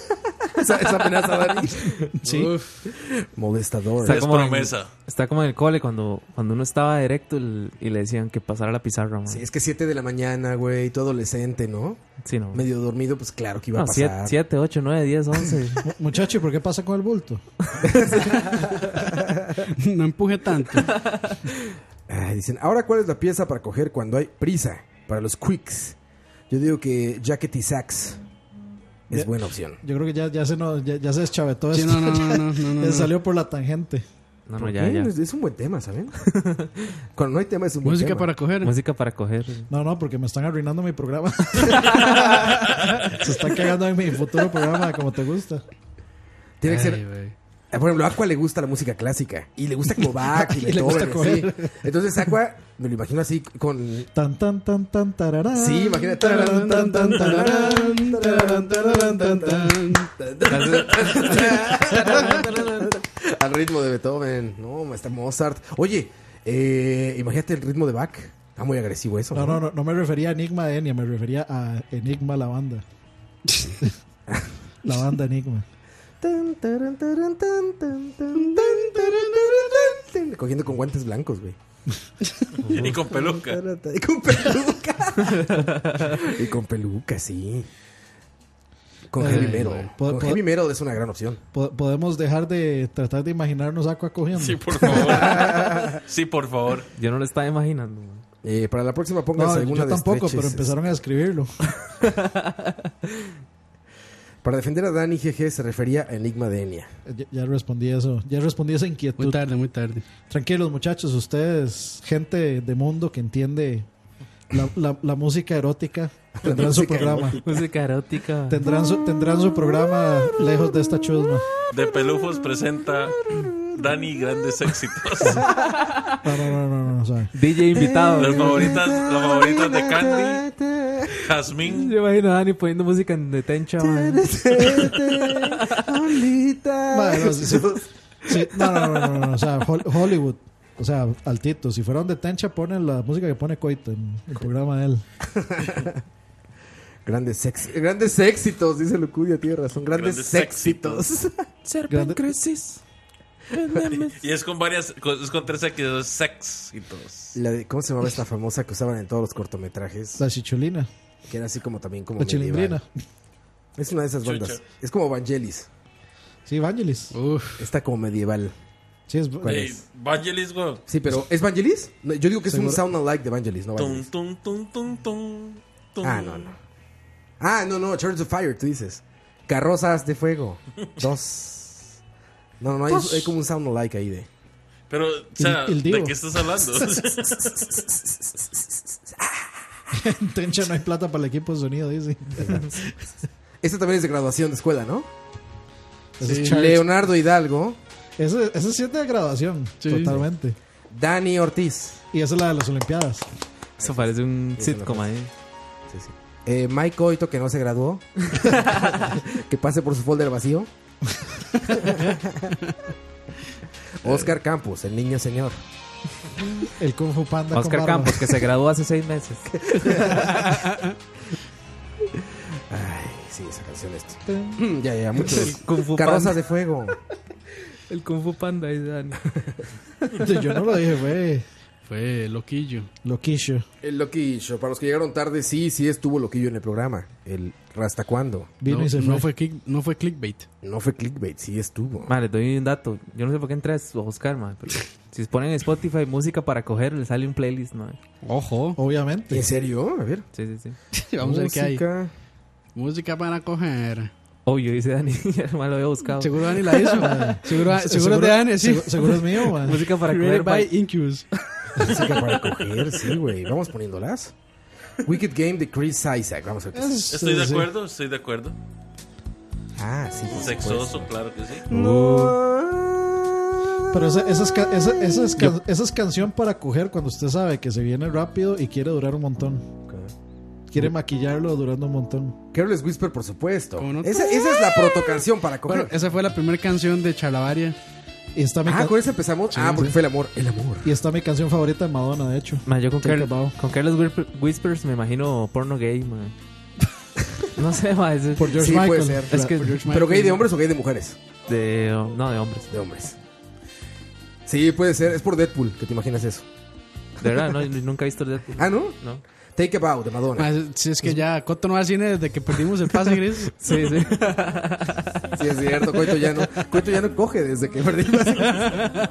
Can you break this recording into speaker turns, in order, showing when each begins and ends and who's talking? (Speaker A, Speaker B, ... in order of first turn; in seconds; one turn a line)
Speaker A: 0.6-4.3
Speaker B: 2.2-2.5
Speaker C: 2.2-2.9
Speaker D: 4.0-9.4
Speaker E: 4.1-4.9
Speaker A: 9.3-14.4
Speaker D: 12.2-12.6
Speaker D: 13.7-15.8
Speaker B: 15.8-17.5
Speaker C: 19.8-21.2
Speaker A: 22.1-26.0
Speaker A: 26.5-28.2
Speaker A: 29.1-29.8
Speaker B: 29.1-34.0
Speaker C: 31.7-33.1
Speaker D: 34.5-35.1
Speaker A: 34.6-36.2
Speaker D: 36.3-36.8
Speaker A: 37.1-38.4
Speaker C: 37.8-38.7
Speaker D: 38.6-39.7
Speaker B: 39.7-42.6
Speaker B: 43.1-45.6
Speaker A: 46.6-54.1
Speaker C: 46.7-47.4
Speaker B: 50.2-51.7
Speaker B: 54.1-60.0
Speaker A: 55.5-57.8
Speaker C: 56.2-60.1
Speaker A: 60.2-69.6
Speaker D: 60.5-62.9
Speaker B: 69.3-72.8
Speaker A: 74.3-74.5
Speaker B: 74.8-75.7
Speaker A: 76.2-81.6
Speaker A: 82.7-87.7
Speaker E: 82.7-83.6
Speaker A: 89.1-91.4
Speaker B: 89.2-90.4
Speaker C: 89.2-89.9
Speaker B: 91.5-95.2
Speaker E: 94.4-96.9
Speaker A: 94.9-96.0
Speaker D: 97.0-98.2
Speaker A: 98.4-100.9
Speaker B: 99.3-101.6
Speaker A: 104.4-106.9
Speaker B: 107.1-109.5
Speaker C: 109.2-110.0
Speaker B: 110.3-113.9
Speaker B: 114.5-117.4
Speaker A: 116.4-117.4
Speaker D: 117.4-118.6
Speaker B: 118.5-121.5
Speaker E: 121.7-125.4
Speaker A: 123.1-124.0
Speaker B: 125.2-125.5
Speaker B: 126.2-127.3
Speaker D: 127.3-128.7
Speaker A: 127.8-131.2
Speaker E: 128.2-130.4
Speaker E: 131.2-131.9
Speaker D: 131.7-134.9
Speaker A: 133.8-139.1
Speaker B: 136.9-145.0
Speaker A: 145.4-146.0
Speaker A: 147.1-151.5
Speaker E: 149.9-151.1
Speaker D: 151.7-152.8
Speaker B: 151.9-152.3
Speaker D: 153.5-154.1
Speaker A: 153.7-154.0
Speaker E: 154.2-157.4
Speaker A: 157.3-160.2
Speaker B: 160.2-160.9
Speaker A: 161.3-162.8
Speaker B: 162.2-162.9
Speaker A: 163.8-165.7
Speaker E: 164.2-164.6
Speaker B: 166.5-167.1
Speaker C: 167.1-167.7
Speaker A: 167.6-168.5
Speaker B: 169.1-169.7
Speaker A: 169.4-169.8
Speaker E: 169.4-170.8
Speaker A: 170.9-174.1
Speaker B: 172.5-172.8
Speaker E: 173.8-176.5
Speaker A: 176.0-176.6
Speaker A: 177.4-182.0
Speaker A: 182.6-184.3
Speaker B: 182.9-183.3
Speaker E: 184.9-187.8
Speaker B: 185.4-187.0
Speaker A: 187.5-189.6
Speaker B: 190.0-192.8
Speaker A: 193.6-195.1
Speaker B: 196.2-196.9
Speaker C: 196.2-196.6
Speaker A: 196.3-197.8
Speaker B: 198.2-200.6
Speaker C: 199.8-200.2
Speaker A: 200.9-202.0
Speaker B: 202.1-203.3
Speaker A: 203.8-205.1
Speaker D: 203.8-205.3
Speaker A: 205.9-210.7
Speaker A: 212.0-212.5
Speaker A: 214.0-215.6
Speaker B: 216.8-218.4
Speaker D: 217.5-220.1
Speaker A: 219.6-220.4
Speaker A: 222.7-227.0
Speaker B: 224.2-224.6
Speaker D: 225.4-226.3
Speaker D: 227.9-229.2
Speaker B: 230.2-231.4
Speaker C: 231.9-232.9
Speaker B: 233.0-233.7
Speaker A: 233.8-238.6
Speaker B: 238.6-239.3
Speaker C: 238.7-240.5
Speaker A: 240.6-242.1
Speaker D: 242.1-248.0
Speaker C: 248.2-248.8
Speaker B: 248.8-249.5
Speaker A: 249.3-250.3
Speaker D: 250.3-250.8
Speaker C: 250.9-251.9
Speaker A: 251.2-252.1
Speaker C: 252.7-254.1
Speaker D: 254.4-257.0
Speaker C: 256.2-262.4
Speaker B: 257.0-259.8
Speaker D: 259.7-260.7
Speaker A: 261.9-264.4
Speaker A: 265.0-267.1
Speaker B: 266.7-267.7
Speaker E: 267.1-268.6
Speaker A: 269.8-274.3
Speaker E: 270.2-271.7
Speaker B: 273.9-279.7
Speaker B: 280.7-282.4
Speaker A: 282.5-285.9
Speaker C: 283.8-284.6
Speaker C: 285.7-287.8
Speaker B: 288.4-289.0
Speaker A: 288.6-290.9
Speaker B: 289.6-289.9
Speaker B: 290.8-293.6
Speaker D: 292.7-296.3
Speaker D: 297.5-298.6
Speaker B: 298.4-299.8
Speaker A: 298.6-301.2
Speaker D: 299.3-299.7
Speaker C: 299.5-300.5
Speaker D: 301.5-302.7
Speaker A: 302.7-303.2
Speaker A: 304.5-306.4
Speaker D: 307.2-309.2
Speaker A: 308.6-309.0
Speaker A: 309.6-310.5
Speaker C: 310.4-313.5
Speaker D: 313.6-315.2
Speaker A: 315.4-318.9
Speaker C: 318.5-319.0